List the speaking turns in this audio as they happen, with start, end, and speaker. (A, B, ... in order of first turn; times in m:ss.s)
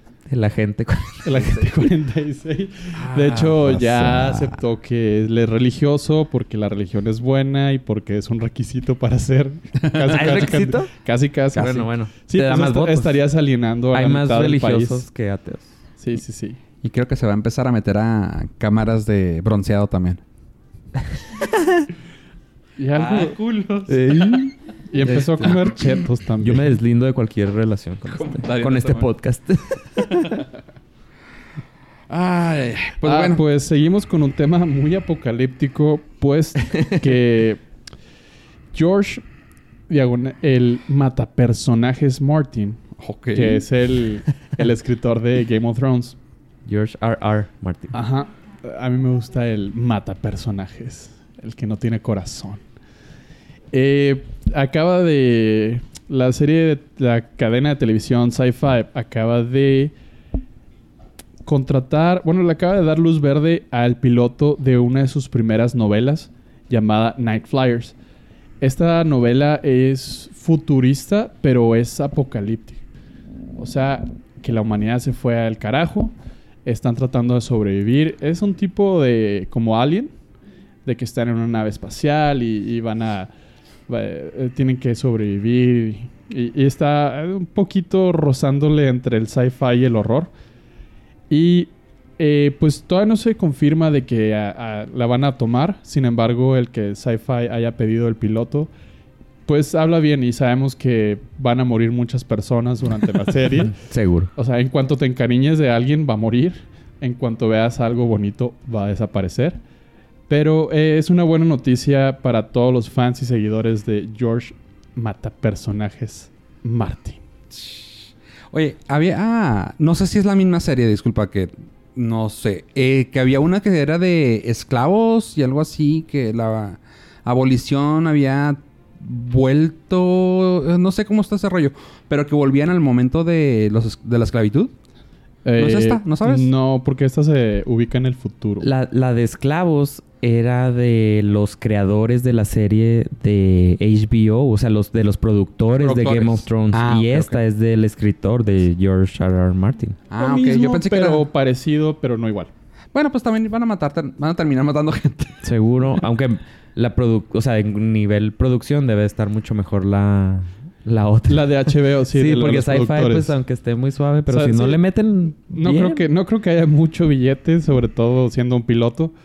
0:00.3-0:01.6 A
0:01.2-0:15.0 B
0:02.9-0:04.6 C
0:09.8-0:10.4 C
0:10.1-0:10.9 A
0:11.5-0:13.2 A
0:13.9-0:15.7 A
0:16.0-0:16.6 B
0:16.8-0:20.2 C
0:21.3-0:21.8 A
0:22.8-0:23.4 B
0:22.9-0:24.4 C
0:23.9-0:24.5 A
0:24.9-0:26.7 B
0:25.0-0:25.7 A
0:26.4-0:30.4 A
0:28.1-0:29.1 C
0:32.1-0:33.4 C
0:33.0-0:37.6 B
0:38.7-0:39.2 B
0:39.9-0:42.8 B
0:43.0-0:43.7 C
0:43.3-0:46.2 B
0:46.6-0:48.0 A
0:47.9-0:52.6 B
0:53.7-0:59.9 B
1:01.4-1:07.9 B
1:08.6-1:12.8 B
1:13.6-1:16.1 B
1:16.6-1:20.1 B
1:20.8-1:23.3 B
1:23.9-1:30.3 B
1:31.3-1:38.7 B
1:39.4-1:43.8 B
1:43.7-1:44.3 A
1:44.4-1:49.6 B
1:50.3-1:57.2 B
1:57.5-2:14.7 C
2:15.4-2:18.7 B
2:15.6-2:16.5 C
2:18.6-2:30.0 A
2:25.7-2:27.4 C
2:30.1-2:31.2 C
2:30.2-2:32.5 B
2:32.9-2:35.4 C
2:35.4-2:46.0 A
2:41.3-2:43.4 B
2:44.3-2:44.8 B
2:45.5-2:49.1 B